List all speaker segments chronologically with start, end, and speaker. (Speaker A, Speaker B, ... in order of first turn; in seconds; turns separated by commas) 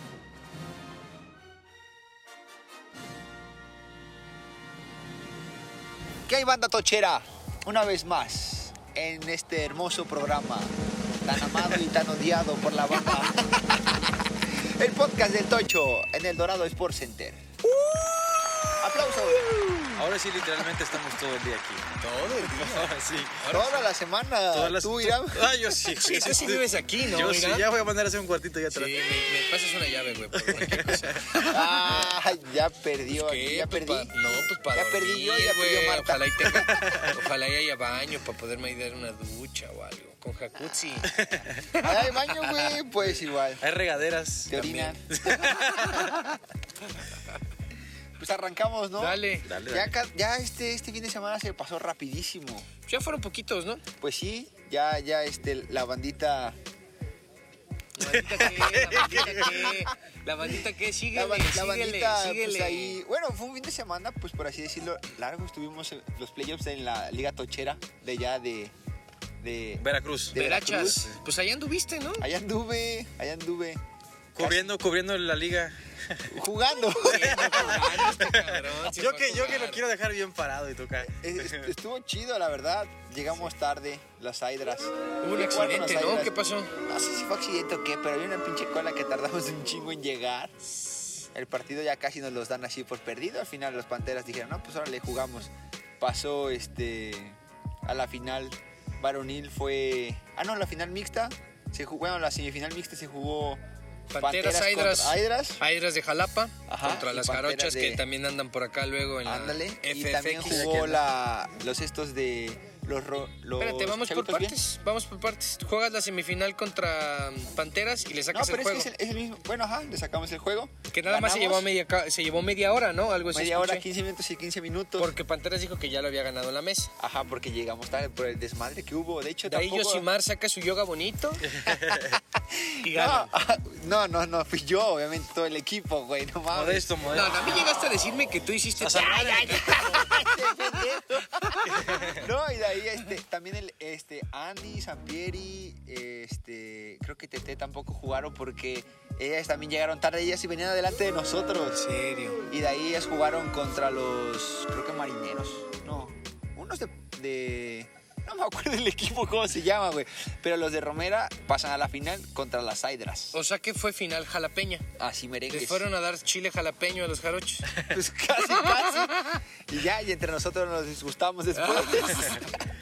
Speaker A: 6.3-17.6, Speaker B: 17.7-18.7, Speaker A: 18.8-19.9, Speaker B: 19.5-19.9, Speaker C: 19.9-23.5, Speaker B: 22.0-23.9, Speaker A: 23.5-25.5, Speaker C: 24.5-29.0, Speaker B: 26.0-27.7, Speaker B: 28.7-32.1, Speaker C: 30.4-31.4, Speaker A: 31.4-36.8, Speaker B: 33.1-41.1, Speaker C: 36.5-37.2, Speaker C: 41.0-41.7, Speaker B: 41.7-42.8, Speaker A: 41.8-43.6, Speaker C: 43.1-44.5, Speaker A: 44.5-46.3, Speaker B: 44.5-45.0, Speaker C: 45.1-46.2, Speaker B: 45.5-46.2, Speaker A: 48.2-52.7, Speaker B: 49.0-49.5, Speaker C: 49.5-49.9, Speaker B: 52.9-53.8, Speaker A: 54.0-56.6, Speaker B: 58.0-63.0, Speaker C: 58.3-59.5, Speaker A: 58.9-59.9, Speaker A: 61.1-68.8, Speaker A: 69.4-71.1, Speaker C: 69.8-71.2, Speaker B: 70.3-72.3, Speaker A: 72.2-73.8, Speaker C: 74.3-76.3, Speaker A: 74.4-74.7, Speaker A: 76.3-78.1, Speaker B: 76.8-79.8, Speaker C: 77.0-81.7, Speaker A: 81.0-90.5, Speaker B: 85.2-86.8, Speaker A: 91.3-103.6, Speaker B: 104.1-111.0, Speaker A: 104.2-105.6, Speaker A: 106.7-108.0, Speaker A: 109.2-114.6, Speaker C: 110.5-111.0, Speaker B: 113.6-118.9, Speaker A: 118.3-121.7, Speaker B: 120.9-123.9, Speaker A: 123.3-125.1, Speaker B: 125.0-126.9, Speaker A: 127.0-130.1, Speaker B: 129.5-131.6, Speaker C: 131.5-132.2, Speaker A: 131.7-137.0, Speaker B: 132.8-133.3, Speaker C: 136.5-137.8, Speaker B: 137.1-140.9, Speaker C: 138.8-140.0, Speaker A: 139.0-151.8, Speaker B: 141.5-142.1, Speaker C: 141.7-142.2, Speaker B: 151.6-152.4, Speaker A: 152.5-163.3, Speaker B: 163.3-164.9, Speaker A: 165.0-165.9, Speaker B: 165.5-167.8, Speaker A: 167.8-172.6, Speaker B: 171.5-172.4